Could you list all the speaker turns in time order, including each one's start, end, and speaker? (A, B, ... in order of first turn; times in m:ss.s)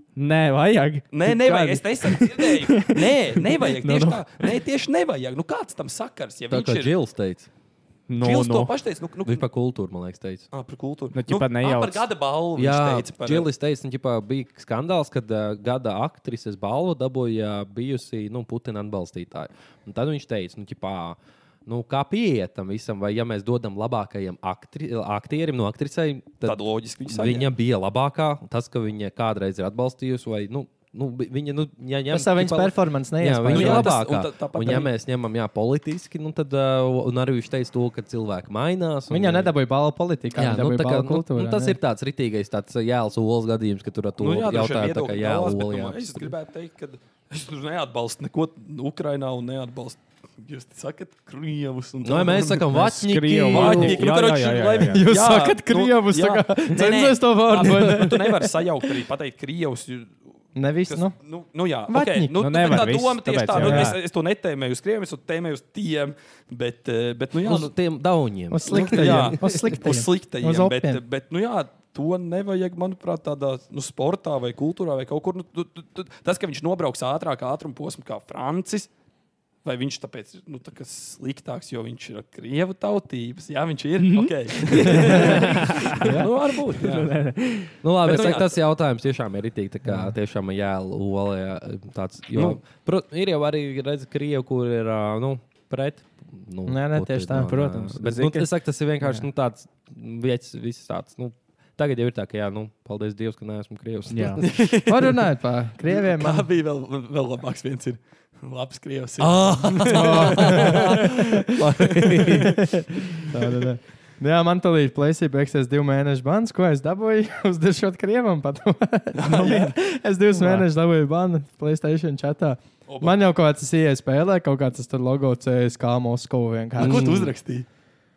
0:00.2-0:04.5 A
0:01.1-0:06.9 B
0:06.5-0:07.5 C
0:08.1-0:08.7 A
0:08.2-0:09.4 B
0:09.2-0:10.5 C
0:10.5-0:13.5 B
0:11.2-0:12.0 A
0:12.6-0:39.5 C
0:26.4-0:27.5 B
0:32.1-0:33.9 D
0:33.5-0:34.9 B
0:39.1-0:41.8 D
0:40.4-0:46.3 C
0:44.2-0:52.7 B
0:52.0-0:54.2 C
0:52.6-0:55.1 A
0:53.5-1:00.1 B
0:54.9-0:58.9 D
1:00.6-1:01.2 D
1:00.9-1:07.7 B
1:01.9-1:02.4 D
1:02.4-1:04.0 A
1:03.5-1:03.9 D
1:07.4-1:09.7 C
1:08.5-1:11.0 D
1:08.7-1:18.9 B
1:19.6-1:27.1 B
1:24.0-1:27.8 A
1:25.2-1:25.7 C
1:27.8-1:44.7 C
1:28.0-1:28.6 B
1:32.4-1:32.6 B
1:36.7-1:37.6 D
1:37.4-1:38.5 A
1:44.1-1:44.4 A
1:44.4-1:45.2 B
1:44.9-1:46.5 D
1:45.9-1:52.4 B
1:49.2-1:52.8 C
1:49.9-1:51.0 D
1:52.6-2:07.3 D
1:59.2-1:59.8 B
2:02.9-2:03.2 B
2:06.8-2:07.3 C
2:06.8-2:07.7 B